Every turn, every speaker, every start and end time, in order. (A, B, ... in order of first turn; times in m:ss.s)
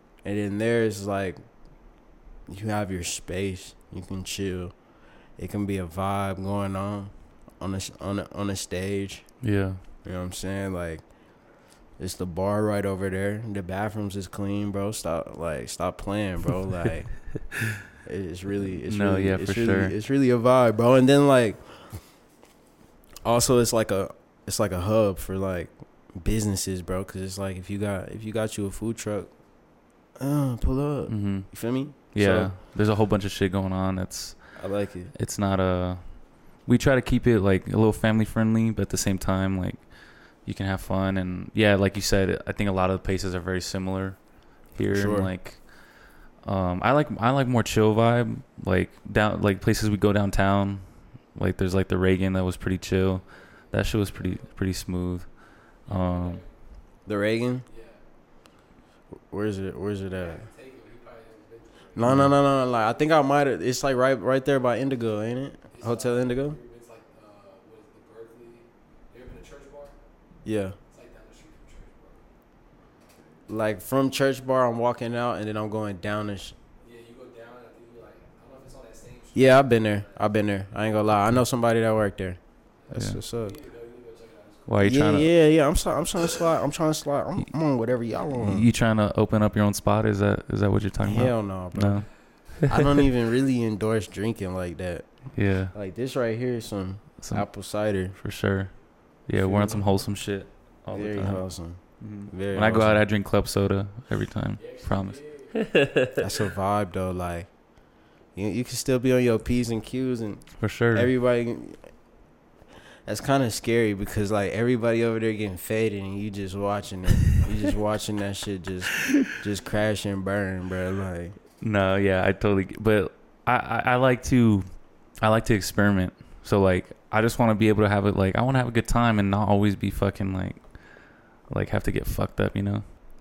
0:00.2-0:22.3 A
0:09.4-0:09.8 B
0:18.9-0:19.9 B
0:23.2-0:32.6 A
0:31.1-0:56.4 B
0:34.6-0:35.1 A
0:44.9-0:45.3 A
0:53.4-0:54.6 C
0:55.9-0:57.1 C
0:57.0-0:57.7 A
0:57.7-0:58.0 C
0:59.3-1:00.5 A
1:00.2-1:03.0 C
1:02.0-1:06.6 A
1:02.0-1:02.3 B
1:05.7-1:10.0 C
1:10.4-1:10.8 A
1:10.9-1:12.3 C
1:13.5-1:16.6 A
1:16.8-1:20.3 C
1:19.3-1:23.6 A
1:22.9-1:25.1 C
1:22.9-1:23.2 B
1:24.7-1:25.3 B
1:24.8-1:28.7 A
1:28.4-1:32.6 B
1:31.0-1:38.2 A
1:35.3-1:35.7 B
1:37.2-1:45.6 B
1:39.4-1:39.8 A
1:40.9-1:43.1 A
1:44.6-1:46.2 C
1:46.2-1:52.2 A
1:50.6-1:51.1 B
1:53.0-2:01.4 A
2:01.6-2:12.8 B